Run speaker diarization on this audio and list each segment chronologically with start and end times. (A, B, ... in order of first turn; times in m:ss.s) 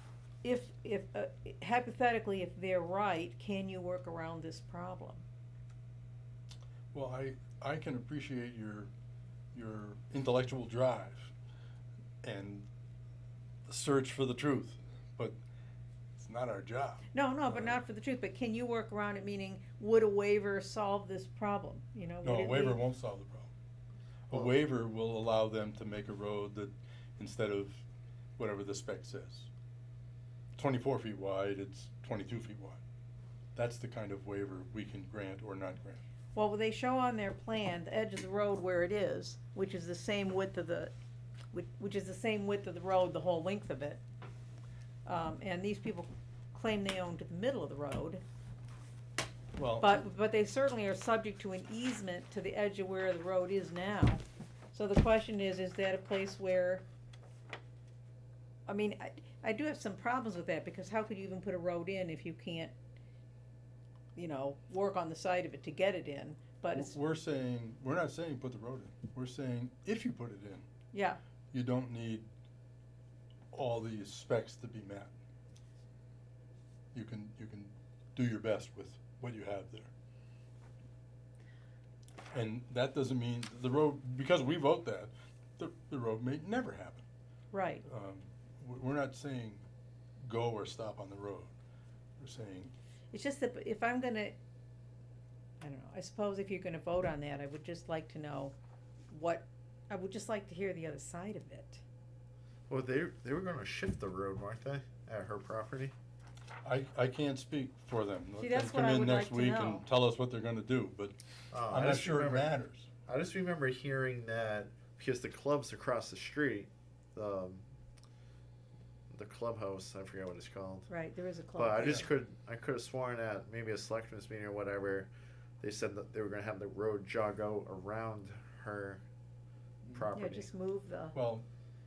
0:00.4-0:05.2 A
0:06.9-0:08.9 B
0:09.5-0:11.3 B
0:12.2-0:12.7 B
0:13.6-0:15.4 B
0:16.2-0:17.8 B
0:17.1-0:22.8 A
0:22.2-0:23.5 B
0:24.3-0:27.8 B
0:28.4-0:29.5 B
0:30.5-0:32.8 B
0:33.5-0:36.0 B
0:36.3-0:40.9 A
0:41.5-0:44.0 A
0:45.0-0:48.2 A
0:49.6-0:50.0 B
0:49.8-0:54.2 A
0:54.7-0:56.8 A
0:58.7-1:02.7 A
1:04.1-1:06.9 A
1:06.8-1:10.6 B
1:10.9-1:11.2 A
1:11.5-1:12.3 B
1:13.5-1:15.1 B
1:16.9-1:19.9 B
1:22.3-1:27.0 B
1:27.5-1:27.8 A
1:27.8-1:29.6 B
1:30.2-1:31.5 B
1:32.2-1:32.7 B
1:33.1-1:34.4 A
1:35.6-1:38.5 A
1:39.1-1:41.8 A
1:42.7-1:45.9 C
1:46.6-1:51.2 B
1:48.4-1:49.8 A
1:51.5-1:52.5 C
1:51.7-1:52.9 B
1:53.1-1:57.6 C
1:59.1-2:00.9 C
2:00.9-2:02.1 A
2:01.5-2:05.1 C
2:05.6-2:09.0 C
2:09.8-2:10.5 C
2:10.1-2:11.2 A
2:11.1-2:11.4 B